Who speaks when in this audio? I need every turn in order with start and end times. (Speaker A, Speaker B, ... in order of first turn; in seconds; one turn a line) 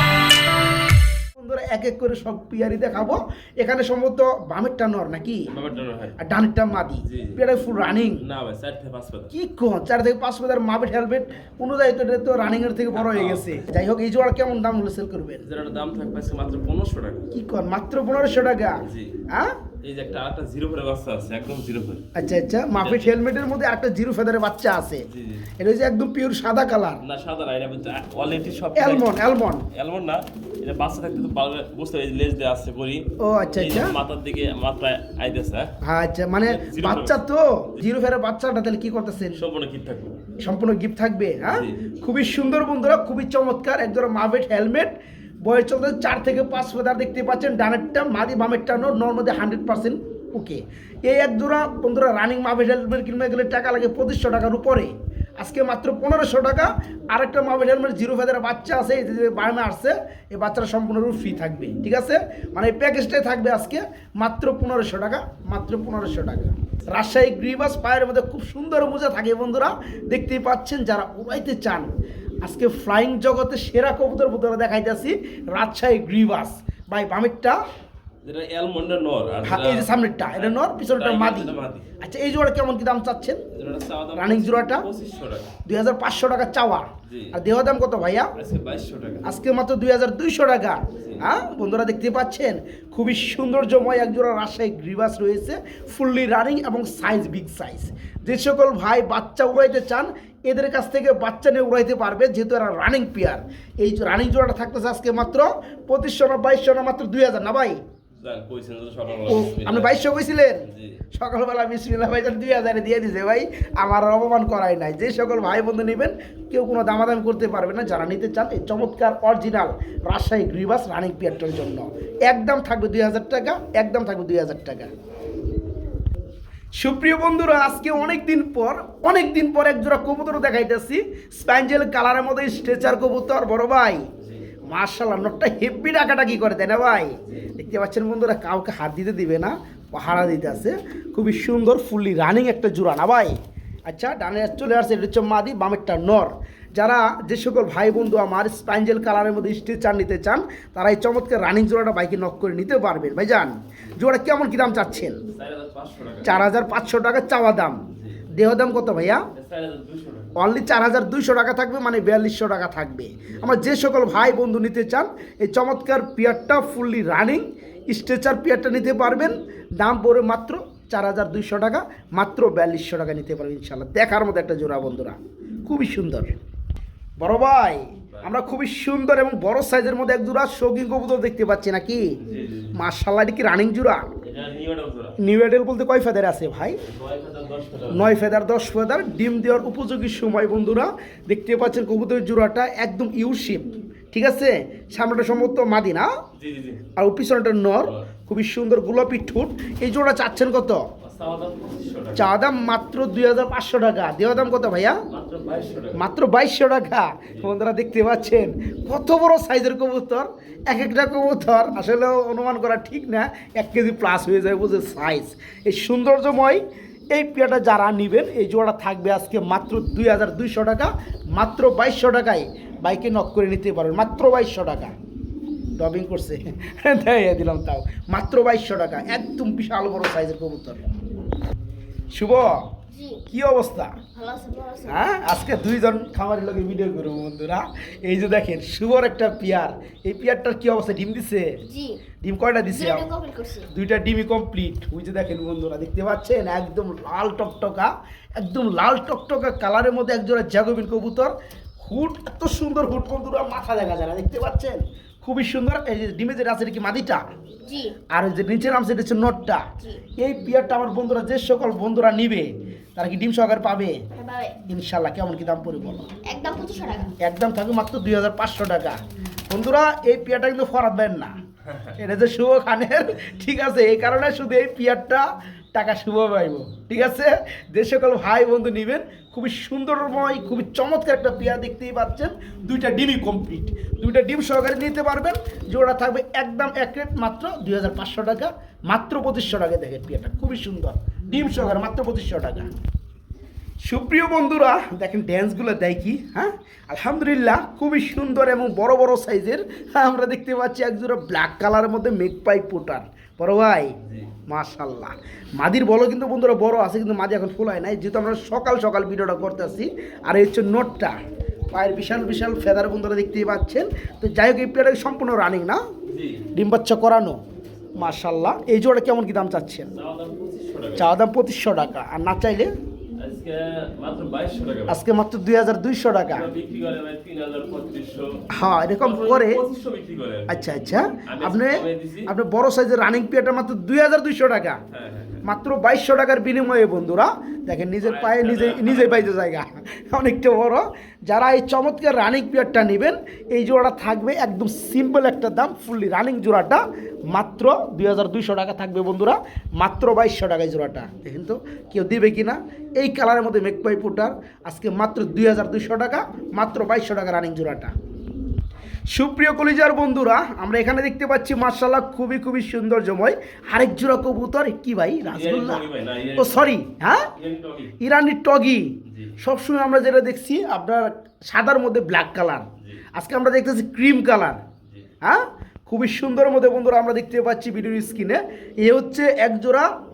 Speaker A: 1.4-5.5
Speaker B: 5.5-6.2
Speaker A: 6.2-8.2
Speaker B: 7.0-7.4
Speaker B: 8.2-9.3
Speaker A: 9.3-15.4
Speaker B: 12.9-13.7
Speaker B: 15.4-17.3
Speaker A: 17.3-19.5
Speaker B: 18.8-19.2
Speaker B: 19.8-22.0
Speaker A: 22.1-25.1
Speaker B: 22.8-23.3
Speaker B: 25.1-25.5
Speaker A: 25.6-27.0
Speaker B: 27.0-29.2
Speaker A: 28.8-29.7
Speaker B: 29.7-35.7
Speaker A: 33.2-33.9
Speaker A: 35.8-39.4
Speaker B: 36.4-37.2
Speaker B: 39.3-40.2
Speaker A: 40.4-71.9
Speaker B: 41.5-41.8
Speaker A: 72.4-77.6
Speaker B: 78.2-81.9
Speaker A: 79.4-83.4
Speaker B: 83.5-85.5
Speaker A: 84.2-84.8
Speaker A: 85.7-88.3
Speaker B: 87.0-87.3
Speaker B: 88.4-89.3
Speaker A: 89.2-107.8
Speaker B: 90.9-91.2
Speaker B: 108.2-110.1
Speaker A: 109.2-124.9
Speaker B: 110.6-111.0
Speaker A: 126.8-134.0
Speaker A: 134.7-155.2
Speaker B: 137.3-137.5
Speaker B: 155.3-156.5
Speaker A: 156.2-157.8
Speaker B: 157.9-158.2
Speaker A: 158.3-159.2
Speaker B: 159.3-160.3
Speaker A: 160.3-176.3
Speaker B: 163.3-163.6
Speaker A: 177.2-182.0
Speaker B: 182.2-182.7
Speaker A: 182.7-184.0
Speaker B: 184.2-185.2
Speaker A: 185.2-186.8
Speaker B: 186.8-188.1
Speaker A: 187.9-196.1
Speaker B: 196.4-196.8
Speaker A: 196.9-200.8
Speaker B: 201.0-202.3
Speaker A: 202.2-205.0
Speaker B: 205.1-206.0
Speaker A: 205.9-224.9
Speaker A: 225.8-230.8
Speaker A: 232.1-232.7
Speaker C: 232.9-233.2
Speaker A: 233.3-234.0
Speaker C: 234.1-235.2
Speaker A: 234.9-241.6
Speaker C: 241.6-242.0
Speaker A: 242.2-243.1
Speaker C: 242.7-243.7
Speaker A: 243.7-257.2
Speaker C: 257.6-257.9
Speaker A: 258.1-259.6
Speaker A: 260.2-264.0
Speaker C: 264.1-264.6
Speaker A: 264.6-266.1
Speaker C: 266.2-267.1
Speaker A: 267.2-269.0
Speaker A: 269.5-271.3
Speaker A: 271.9-292.7
Speaker A: 293.9-303.9
Speaker B: 304.0-304.3
Speaker A: 304.5-311.1
Speaker A: 311.7-315.8
Speaker B: 316.1-316.5
Speaker A: 316.5-317.4
Speaker A: 318.0-319.9
Speaker B: 319.9-321.1
Speaker A: 321.0-322.7
Speaker B: 323.2-325.0
Speaker A: 324.9-326.4
Speaker B: 326.3-328.4
Speaker A: 328.5-329.6
Speaker B: 329.0-330.7
Speaker A: 330.5-334.8
Speaker B: 331.2-332.3
Speaker B: 334.9-335.4
Speaker A: 335.4-357.9
Speaker B: 338.0-339.4
Speaker A: 359.1-365.8
Speaker B: 365.3-366.8
Speaker A: 366.4-367.3
Speaker B: 367.3-367.9
Speaker A: 368.0-374.6
Speaker B: 369.1-369.4
Speaker A: 375.2-379.9